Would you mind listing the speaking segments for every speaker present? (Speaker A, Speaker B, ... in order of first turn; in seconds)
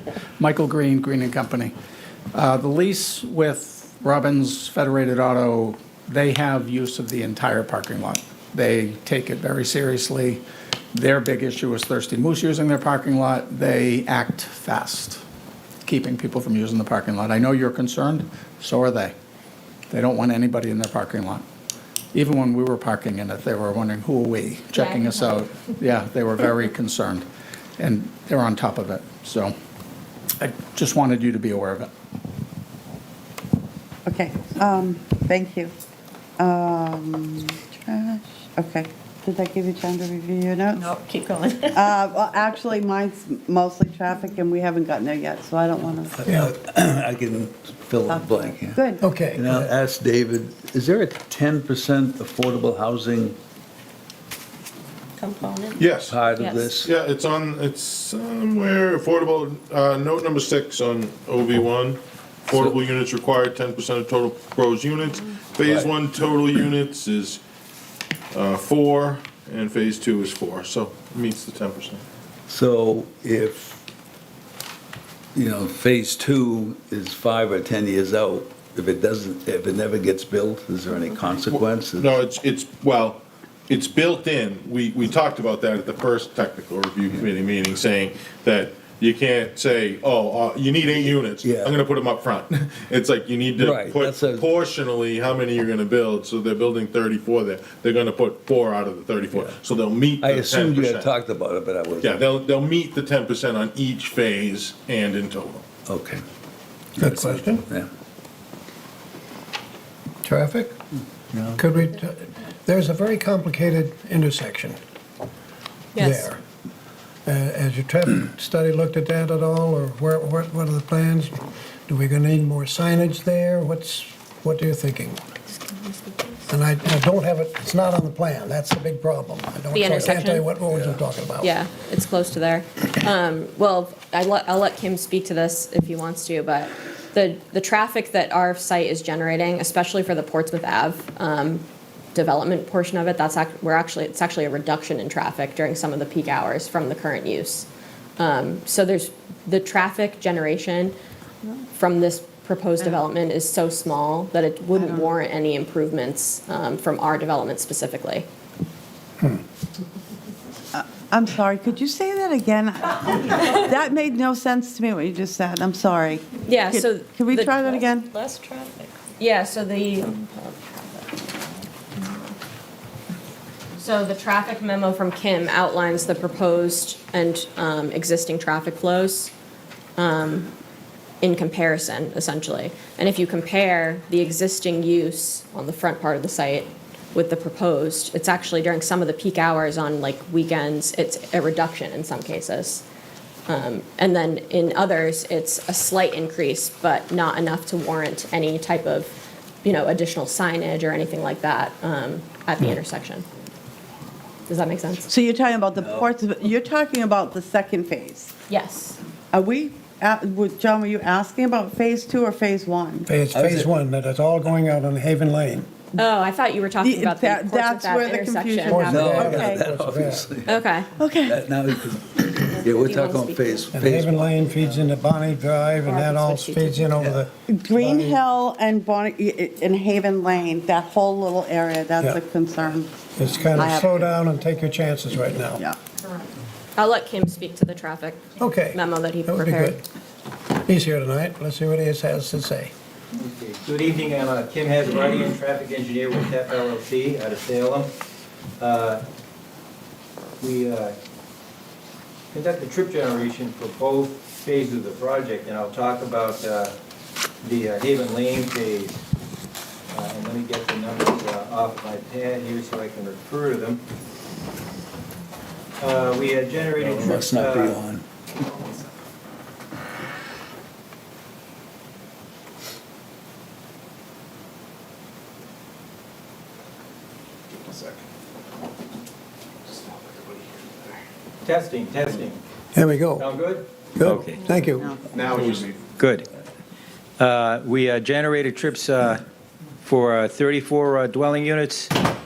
Speaker A: 0.4-1.7, 2.3-15.2, 15.8-19.1, 19.9-21.4, 22.1-27.3, 27.8-29.5, 30.4-31.9
Speaker B: 24.7-25.5, 56.4-56.7, 115.9-116.3, 129.7-130.5, 131.4-150.9, 151.7-158.3, 166.4-167.6, 169.2-170.6, 173.8-179.3, 180.0-180.5, 181.2-192.8, 193.5-203.2, 204.5-205.1, 208.5-209.0, 215.9-219.2, 220.5-220.9, 222.5-223.7, 225.8-226.8, 236.8-239.8
Speaker C: 34.0-35.7, 36.4-40.9, 41.7-46.2, 48.0-49.0, 154.7-155.1, 160.7-168.1, 205.1-208.3, 209.3-213.1, 216.8-219.6, 221.0-221.4, 227.5-234.1
Speaker D: 40.8-41.8, 55.2-55.7, 168.2-168.9
Speaker E: 46.2-53.4, 56.0-56.9, 62.5-62.8, 65.6-66.0, 72.5-73.8, 75.3-82.2, 91.4-91.8, 93.6-94.5, 100.2-102.3, 105.8-106.2, 107.0-107.9, 111.3-111.6, 205.8-206.1, 213.3-213.7, 218.8-224.7, 266.8-268.1
Speaker F: 46.2-46.5, 49.0-49.7, 107.0-107.6, 110.2-110.7, 111.5-114.8, 116.0-116.4, 117.2-125.2, 126.5-131.5, 213.1-215.7, 218.7-220.3, 223.7-228.2, 233.2-235.6, 238.4-239.8, 240.6-242.7, 282.7-283.3, 283.9-284.9
Speaker G: 55.8-56.2, 56.8-67.4, 68.3-72.0, 81.5-101.1, 102.0-105.7, 285.4-285.6
Speaker H: 243.1-247.9, 248.6-249.0, 250.4-250.9, 252.3-256.7, 257.4-259.0, 259.9-263.8, 265.8-267.8, 281.4-282.4, 283.1-284.4, 286.0-286.2, 287.2-289.2, 289.8-291.9